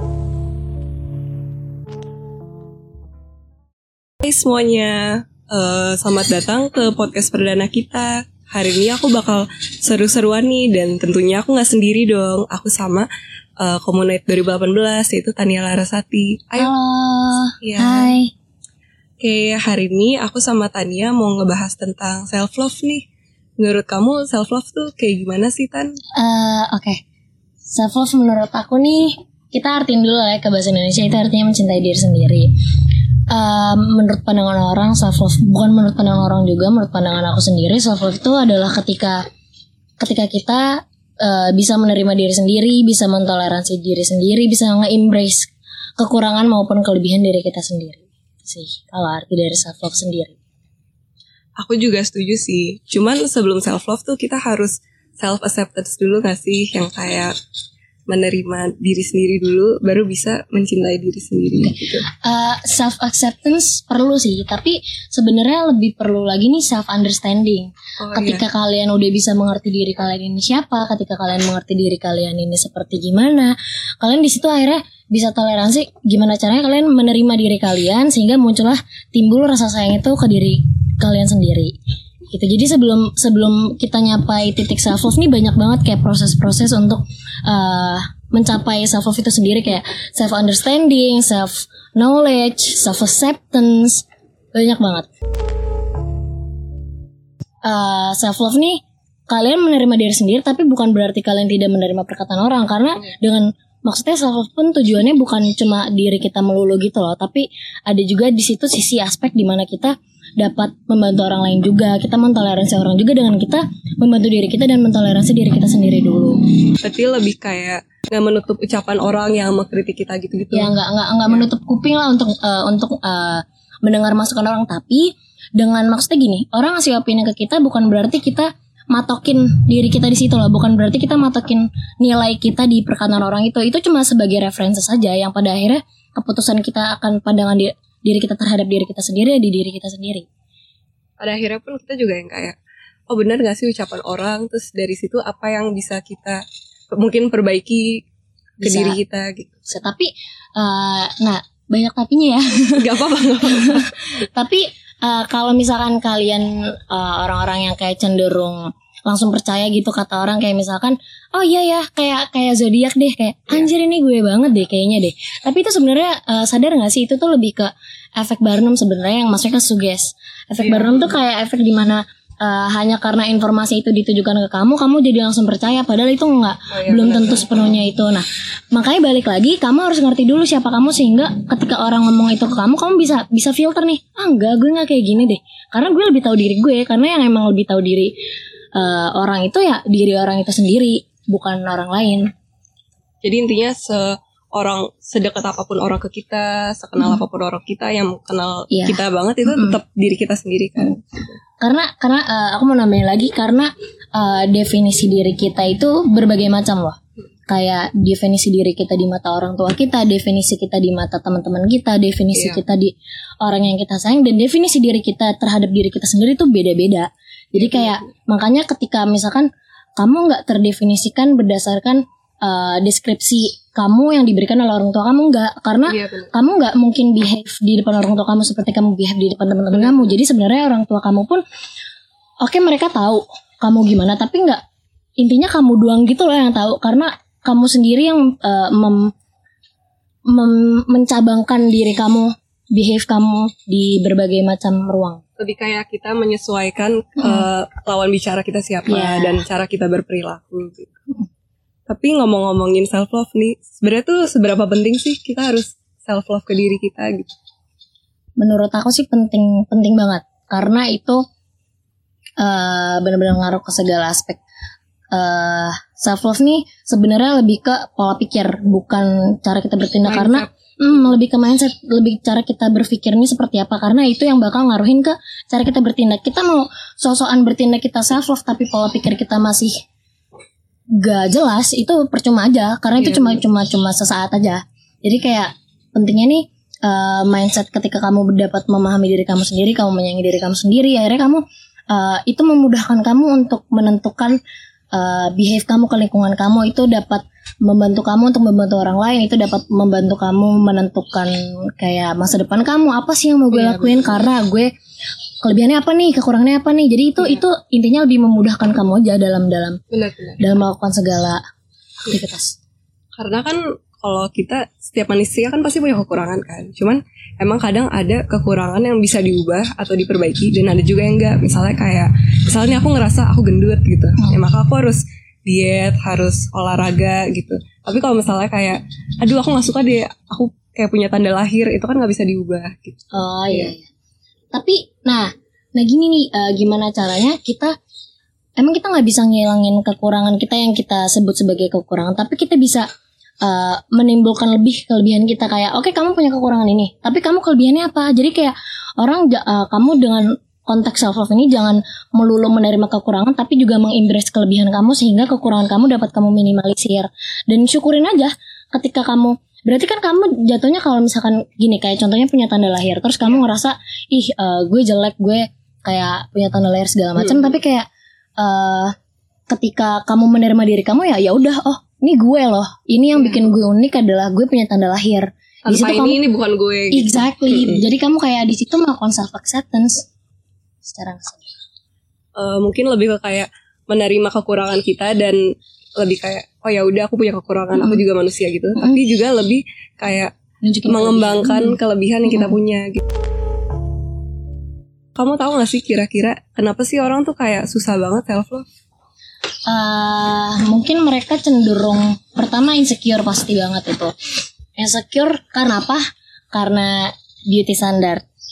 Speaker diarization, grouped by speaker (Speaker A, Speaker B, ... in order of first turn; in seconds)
Speaker A: 4.2-13.1, 13.6-16.7, 17.6-18.1, 19.2-23.1, 23.6-25.9, 51.6-57.3, 58.1-62.1, 68.0-68.4, 116.8-120.7, 141.2-142.6, 143.1-148.1, 148.6-149.6, 152.7-154.2, 170.6-171.1, 176.7-177.4, 193.2-201.4, 212.3-212.6, 217.6-218.1, 225.9-226.3, 229.7-230.1, 245.4-250.9, 251.9-257.3, 270.0-270.5, 283.0-283.4, 303.5-304.2, 309.9-310.4, 313.2-333.7, 367.1-367.5, 373.1-373.5, 375.7-377.8, 382.4-385.4, 386.0-390.3, 390.9-393.0, 395.1-398.6
Speaker B: 16.6-18.3, 26.1-27.0, 27.7-32.5, 33.3-39.2, 40.0-50.3, 62.1-81.7, 82.3-95.1, 97.7-116.4, 120.5-140.3, 148.6-149.0, 149.7-152.9, 153.4-188.2, 188.7-192.3, 198.7-199.8, 201.6-231.4, 232.4-234.6, 235.2-239.1, 240.3-245.2, 247.2-247.5, 248.9-249.4, 258.4-261.2, 262.4-264.4, 265.1-279.7, 281.0-294.4, 294.9-304.7, 305.4-309.8, 310.4-311.4, 312.1-312.6, 333.1-333.8, 334.5-337.7, 338.6-342.9, 343.4-367.9, 368.4-368.9, 369.5-376.2, 376.9-380.1, 380.8-381.5, 390.6-392.6, 399.7-404.1, 404.8-406.0, 406.5-408.2